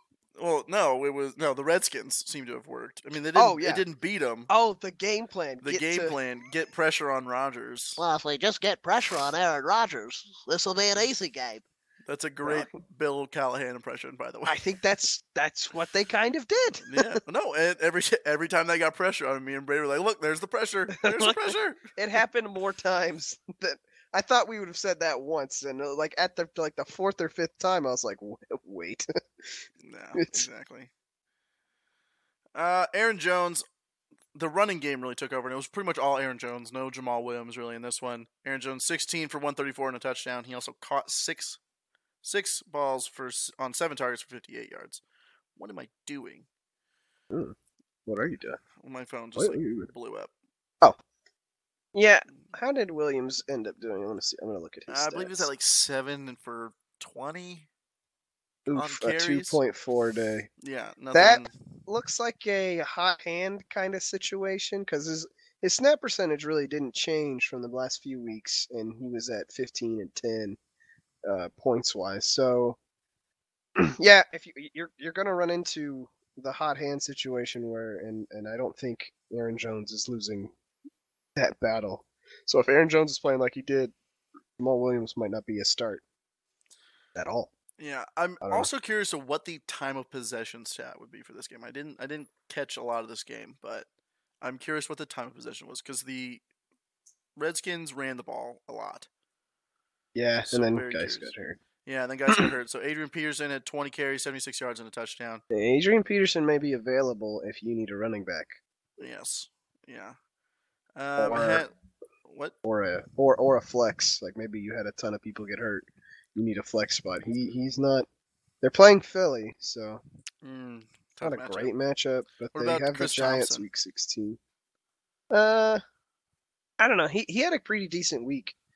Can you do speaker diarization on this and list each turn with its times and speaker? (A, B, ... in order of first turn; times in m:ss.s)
0:00.4-0:04.5 A
0:03.3-0:03.8 B
0:04.5-0:06.1 B
0:05.6-0:08.0 A
0:08.0-0:11.6 C
0:12.1-0:14.5 A
0:12.4-0:12.7 B
0:14.4-0:17.2 B
0:16.8-0:21.9 A
0:21.0-0:21.4 B
0:22.0-0:29.1 B
0:29.8-0:30.9 A
0:30.1-0:30.5 B
0:32.5-0:33.6 A
0:34.3-0:41.6 A
0:42.2-0:45.0 A
0:45.6-0:46.4 A
0:48.0-0:48.6 B
0:48.8-0:50.3 A
0:49.4-0:49.9 B
0:51.9-0:55.5 B
0:54.9-0:57.7 A
0:58.7-1:00.5 B
0:58.7-0:59.6 A
1:00.6-1:01.6 A
1:01.1-1:10.6 B
1:11.2-1:12.8 B
1:13.8-1:20.5 B
1:21.4-1:23.9 B
1:24.6-1:26.0 B
1:27.1-1:27.5 B
1:27.8-1:33.9 A
1:28.4-1:28.7 B
1:34.4-1:36.4 A
1:37.4-1:39.1 A
1:40.1-1:41.6 B
1:40.4-1:41.3 A
1:41.8-1:45.4 A
1:45.5-1:48.6 B
1:49.0-1:50.2 A
1:51.0-1:51.7 A
1:51.2-1:51.7 B
1:52.2-1:52.5 A
1:52.6-1:58.1 B
1:58.6-2:00.0 B
2:00.4-2:01.7 A
2:01.2-2:04.4 B
2:02.5-2:03.6 A
2:05.3-2:05.8 B
2:06.8-2:08.5 B